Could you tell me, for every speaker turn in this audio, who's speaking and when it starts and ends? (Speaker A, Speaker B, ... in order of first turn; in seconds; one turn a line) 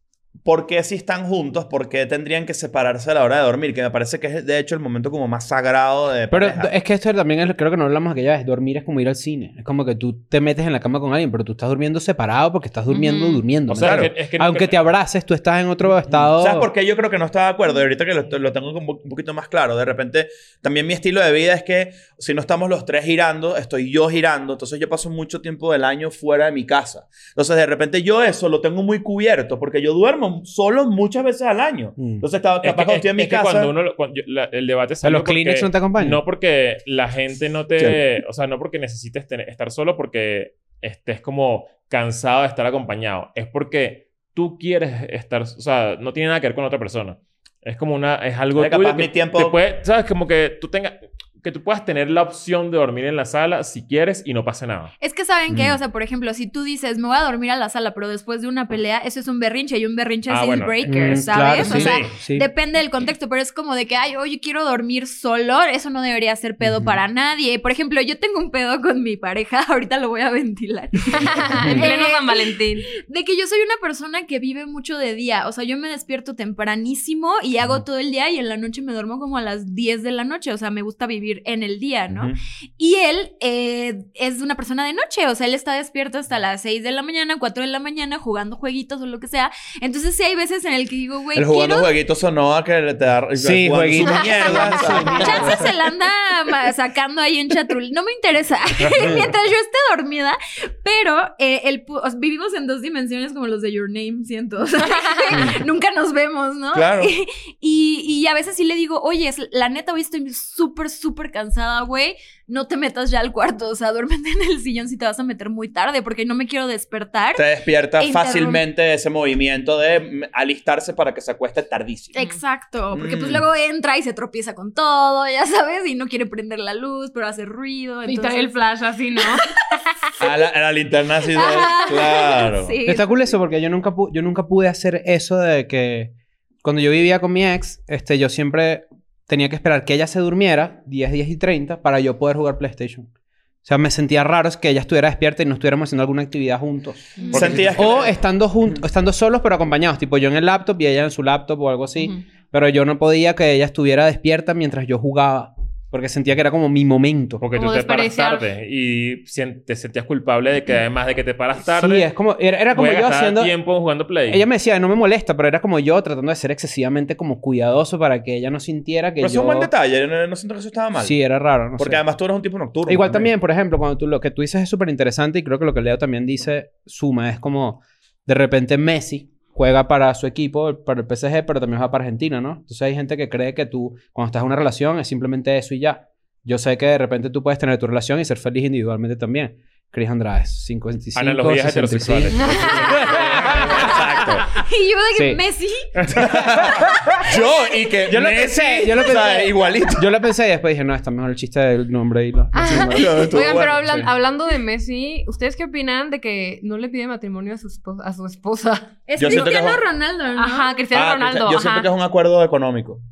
Speaker A: 0.4-6.7
Speaker B: 6.3-16.7
Speaker C: 12.9-13.4
Speaker D: 13.7-14.9
Speaker A: 13.8-14.1
Speaker A: 16.1-33.7
Speaker B: 32.0-32.2
Speaker D: 32.6-54.9
Speaker B: 35.0-36.2
Speaker A: 48.5-49.6
Speaker E: 55.0-91.9
Speaker A: 55.5-55.8
Speaker D: 60.3-62.1
Speaker B: 60.9-62.5
Speaker A: 61.7-62.0
Speaker B: 66.6-67.0
Speaker C: 71.1-72.9
Speaker B: 71.6-71.9
Speaker A: 82.1-82.3
Speaker A: 91.3-95.7
Speaker B: 93.3-95.6
Speaker E: 94.0-117.4
Speaker C: 104.9-105.4
Speaker A: 106.7-107.1
Speaker A: 117.3-122.1
Speaker E: 118.0-118.6
Speaker E: 122.1-128.5
Speaker A: 122.9-123.4
Speaker C: 128.1-129.5
Speaker E: 129.3-130.3
Speaker A: 130.2-132.8
Speaker E: 131.3-133.1
Speaker B: 132.8-143.1
Speaker B: 143.6-157.4
Speaker C: 147.2-147.6
Speaker E: 147.2-147.5
Speaker D: 147.3-148.0
Speaker A: 147.3-148.2
Speaker D: 157.4-162.1
Speaker C: 157.5-158.4
Speaker B: 161.7-163.5
Speaker D: 162.7-164.4
Speaker B: 164.3-169.7
Speaker A: 169.2-171.2
Speaker B: 171.0-172.0
Speaker A: 171.8-173.3
Speaker B: 172.9-193.9
Speaker D: 191.1-194.6
Speaker C: 192.3-192.8
Speaker E: 192.6-193.1
Speaker A: 193.6-194.5
Speaker E: 193.8-196.1
Speaker B: 195.1-195.4
Speaker A: 196.1-200.1
Speaker B: 196.1-197.3
Speaker E: 196.7-197.8
Speaker B: 198.1-204.1
Speaker E: 199.0-199.4
Speaker C: 202.5-209.4
Speaker A: 202.7-203.8
Speaker E: 209.1-210.8
Speaker A: 209.2-209.8
Speaker C: 210.3-211.9
Speaker A: 210.9-213.0